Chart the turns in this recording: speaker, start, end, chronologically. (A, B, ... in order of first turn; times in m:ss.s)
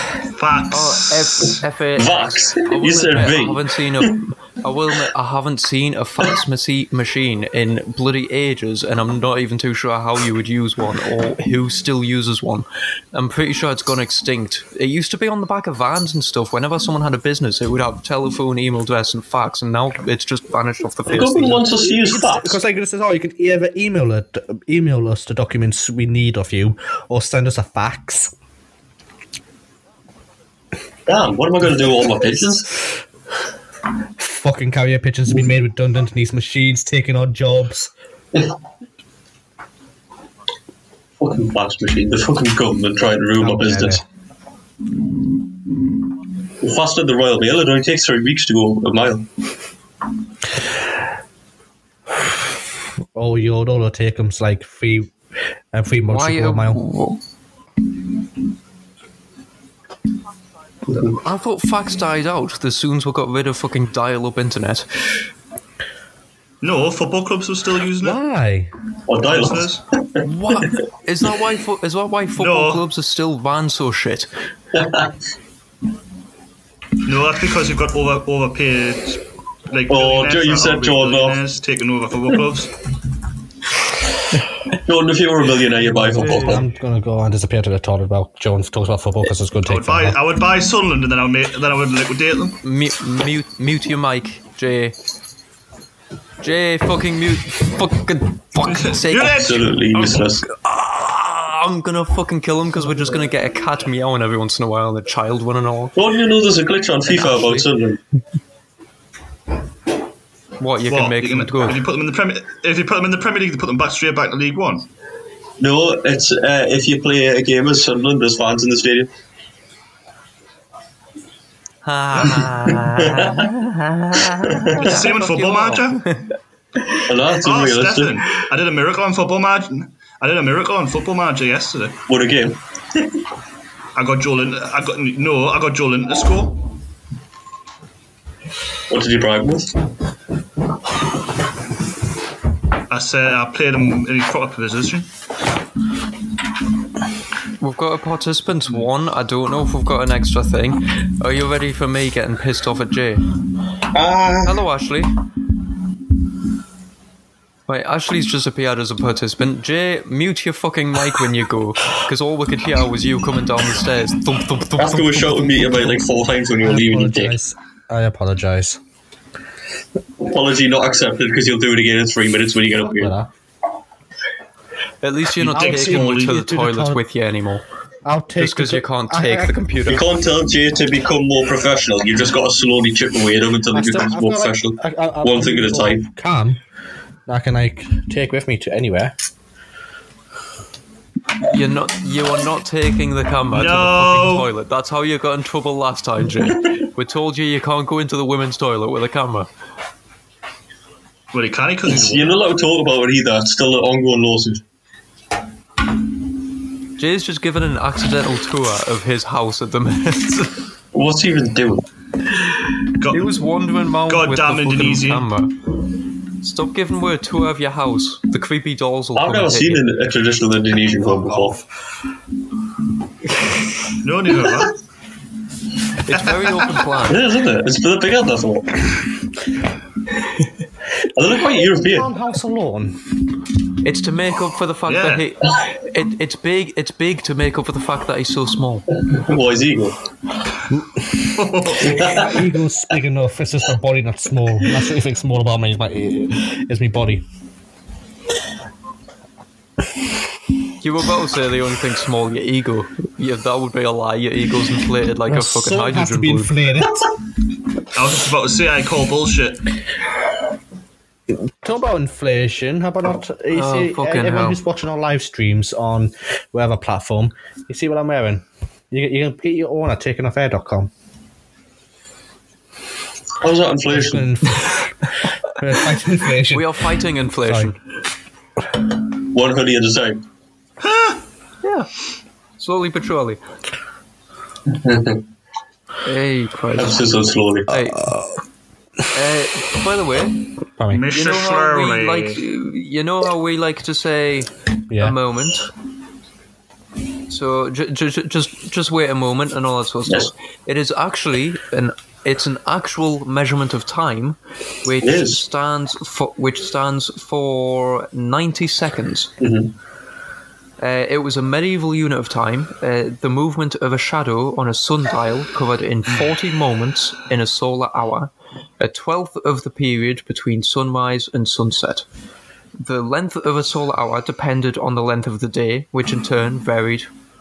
0:00.4-0:01.6 A
0:00.7-0:21.7 B
0:02.0-0:04.2 C
0:21.1-0:22.6 C
0:21.8-0:28.3 D
0:31.1-0:32.7 C
0:34.2-0:37.9 D
0:41.2-0:44.0 C
0:43.4-0:44.0 D
0:46.6-0:49.3 C
0:53.1-0:55.1 D
0:55.7-0:56.8 D
0:56.1-0:57.2 B
1:01.0-1:04.9 B
1:06.6-1:08.2 A
1:08.0-1:08.7 D
1:09.1-1:10.2 C
1:09.2-1:09.8 A
1:10.2-1:14.3 B
1:12.4-1:12.8 A
1:14.7-1:15.1 C
1:17.0-1:22.7 A
1:19.9-1:21.4 C
1:24.8-1:26.6 C
1:25.8-1:30.2 D
1:26.2-1:26.5 B
1:29.6-1:32.6 A
1:32.6-1:35.0 B
1:36.4-1:46.0 B
1:38.6-1:40.2 A
1:39.4-1:40.4 C
1:46.0-1:48.0 C
1:47.1-1:47.7 B
1:50.6-1:51.8 B
1:50.9-1:54.9 A
1:55.6-1:59.1 C
2:01.8-2:06.3 B
2:03.0-2:03.4 C
2:04.5-2:04.9 C
2:04.8-2:06.0 A
2:07.1-2:08.2 C
2:07.4-2:12.0 A
2:12.1-2:12.6 C
2:14.0-2:16.6 A
2:18.9-2:19.7 C
2:22.9-2:25.1 A
2:27.6-2:33.2 B
2:34.4-2:35.1 B
2:37.7-2:45.6 B
2:44.8-2:47.4 C
2:46.6-2:48.8 D
2:50.2-2:53.1 C
2:52.8-2:53.3 D
2:55.0-2:57.6 B
2:55.4-2:56.4 A
2:55.5-2:57.0 D
2:58.0-2:59.6 D
2:58.4-3:00.0 B
2:59.9-3:06.0 C
3:03.7-3:06.6 D
3:07.3-3:09.2 D
3:11.5-3:19.5 B
3:13.5-3:14.5 A
3:21.3-3:22.3 A
3:21.9-3:24.6 C
3:27.0-3:30.6 B
3:30.9-3:31.9 C
3:33.0-3:33.4 A
3:33.1-3:35.6 B
3:34.1-3:35.3 A
3:36.4-3:39.8 B
3:39.2-3:41.6 C
3:41.0-3:41.7 D
3:44.0-3:44.7 A
3:46.0-3:47.2 B
3:46.1-3:46.8 A
3:47.1-3:48.9 C
3:51.2-3:52.1 C
3:51.4-3:53.0 D
3:53.8-3:58.9 B
3:54.9-3:55.3 A
3:59.1-4:00.0 C
4:00.7-4:01.1 D
4:01.4-4:02.2 A
4:01.8-4:02.3 C
4:02.2-4:07.2 D
4:10.8-4:16.5 B
4:15.3-4:17.0 D
4:18.0-4:19.6 A
4:21.3-4:30.9 D
4:23.5-4:24.6 B
4:33.4-4:34.3 C
4:33.9-4:34.9 D
4:35.6-4:36.7 D
4:36.5-4:37.8 B
4:37.4-4:37.7 D
4:39.3-4:40.2 C
4:40.8-4:41.2 A
4:41.6-4:41.9 B
4:42.6-4:43.4 B
4:44.7-4:45.2 C
4:46.0-4:47.0 B
4:46.8-4:47.7 C
4:47.7-4:48.1 B
4:49.1-4:50.4 B
4:50.8-4:51.1 D
4:50.9-4:52.4 A
4:51.1-4:55.7 B
4:54.9-4:55.2 D
4:57.3-5:09.3 B
5:05.0-5:05.4 C
5:09.4-5:09.7 C
5:10.8-5:22.1 B
5:22.8-5:27.1 B